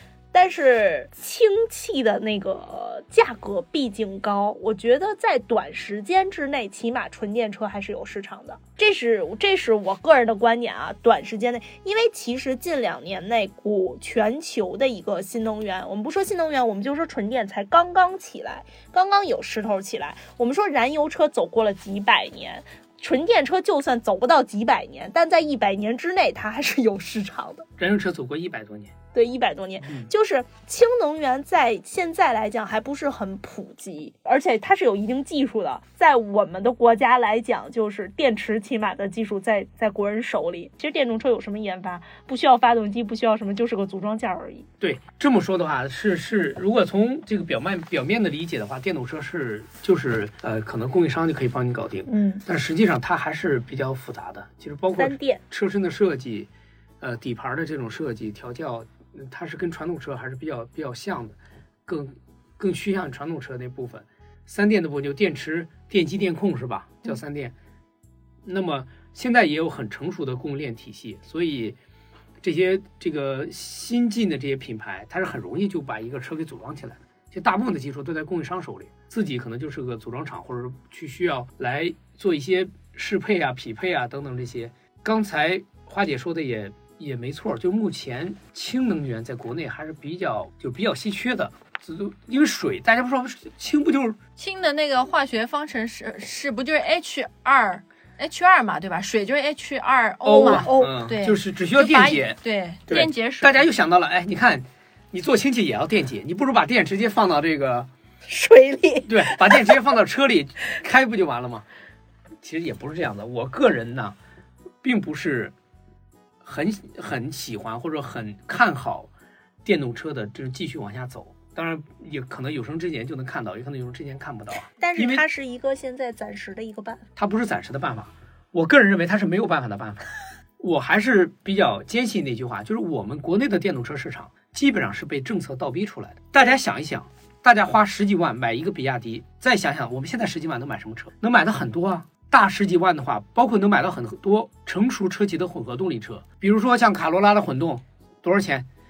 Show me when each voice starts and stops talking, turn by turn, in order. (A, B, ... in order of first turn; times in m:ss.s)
0:00.3-0:27.7 A
0:27.8-0:28.9 B
0:29.1-0:44.7 A
0:29.8-0:30.1 B
0:44.8-0:56.5 B
0:52.1-0:52.4 A
0:54.9-0:55.4 A
0:57.0-1:07.5 B
1:08.4-1:11.8 B
1:12.4-1:34.2 B
1:34.4-1:43.6 C
1:40.2-1:47.9 B
1:40.4-1:41.0 A
1:48.3-1:49.8 A
1:49.1-1:51.7 B
1:52.4-1:54.2 B
1:54.8-1:55.5 B
1:56.4-1:59.1 B
1:59.6-2:05.2 B
2:04.8-2:07.0 A
2:07.2-2:10.0 B
2:10.6-2:28.7 B